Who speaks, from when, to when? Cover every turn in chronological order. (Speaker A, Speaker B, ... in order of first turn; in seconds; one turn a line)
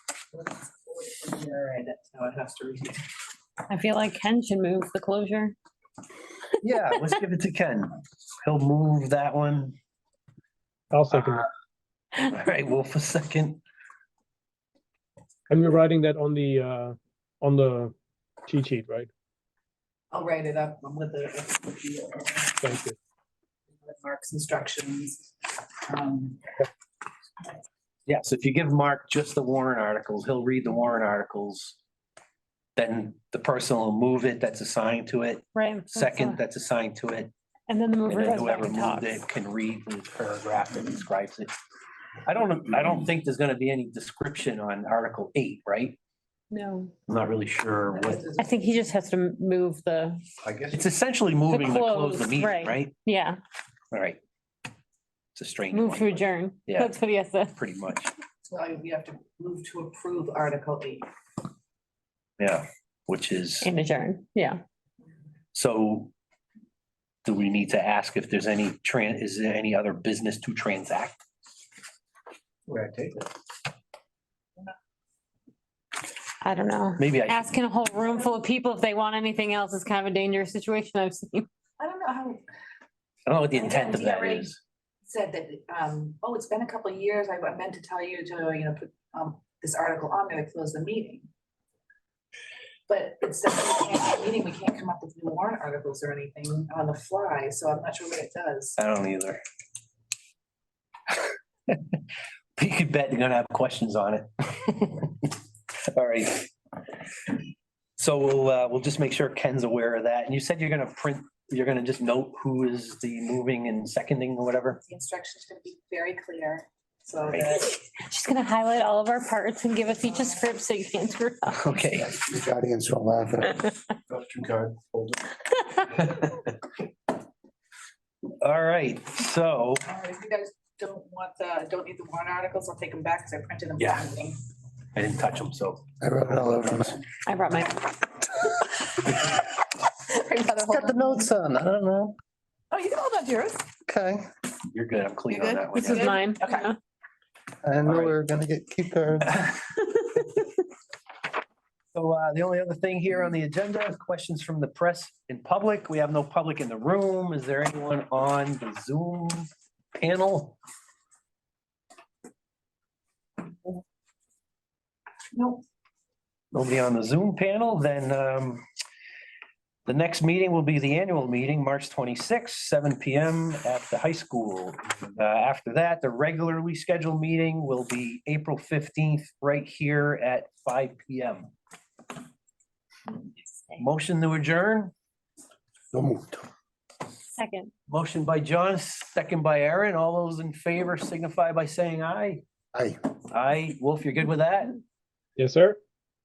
Speaker A: 0.3-3.1
Speaker B: 3.7-5.5
Speaker C: 6.6-9.7
Speaker D: 10.9-11.5
Speaker C: 11.1-11.4
Speaker C: 12.2-13.6
Speaker D: 15.5-17.9
Speaker D: 18.5-19.1
Speaker A: 20.1-22.6
Speaker D: 22.6-23.0
Speaker A: 23.8-25.3
Speaker A: 25.9-26.4
Speaker C: 28.1-31.8
Speaker C: 32.8-37.3
Speaker B: 35.5-36.4
Speaker B: 37.7-39.2
Speaker C: 38.1-41.5
Speaker C: 42.2-46.0
Speaker B: 46.5-46.9
Speaker C: 47.1-48.3
Speaker A: 47.9-48.6
Speaker B: 48.4-50.2
Speaker C: 50.7-52.9
Speaker B: 51.5-53.4
Speaker C: 53.9-54.2
Speaker C: 55.3-56.9
Speaker B: 55.7-57.5
Speaker C: 57.5-58.1
Speaker A: 58.5-61.0
Speaker C: 62.4-63.7
Speaker B: 63.6-64.6
Speaker C: 65.5-66.1
Speaker C: 67.2-71.2
Speaker B: 76.4-81.5
Speaker C: 77.0-77.5
Speaker A: 81.8-82.4
Speaker C: 83.2-84.6
Speaker A: 83.5-84.5
Speaker A: 85.1-91.3
Speaker A: 92.9-98.8
Speaker C: 98.8-99.4
Speaker C: 101.7-102.0
Speaker C: 102.6-105.3
Speaker C: 105.9-106.5
Speaker C: 108.0-114.8
Speaker A: 114.8-117.7
Speaker C: 117.3-117.6
Speaker B: 117.7-121.8
Speaker C: 121.5-122.2
Speaker E: 122.0-123.6
Speaker C: 125.8-126.5
Speaker C: 128.4-129.9
Speaker A: 129.8-134.4
Speaker C: 133.8-134.1
Speaker C: 134.9-135.8
Speaker E: 136.0-137.0
Speaker B: 137.2-138.0
Speaker A: 140.0-141.3
Speaker C: 140.8-142.1
Speaker E: 140.9-141.2
Speaker A: 142.7-143.7
Speaker E: 143.8-144.2
Speaker C: 144.7-146.2
Speaker A: 145.3-146.7
Speaker B: 145.8-146.8
Speaker E: 147.6-149.5
Speaker C: 147.8-148.2
Speaker C: 151.9-160.6
Speaker A: 165.3-165.6
Speaker C: 166.5-168.6
Speaker C: 169.8-181.5
Speaker B: 183.4-183.8
Speaker C: 183.8-184.9
Speaker E: 185.9-186.5
Speaker B: 187.3-187.7
Speaker C: 187.9-192.4
Speaker C: 193.3-194.8
Speaker D: 195.4-195.8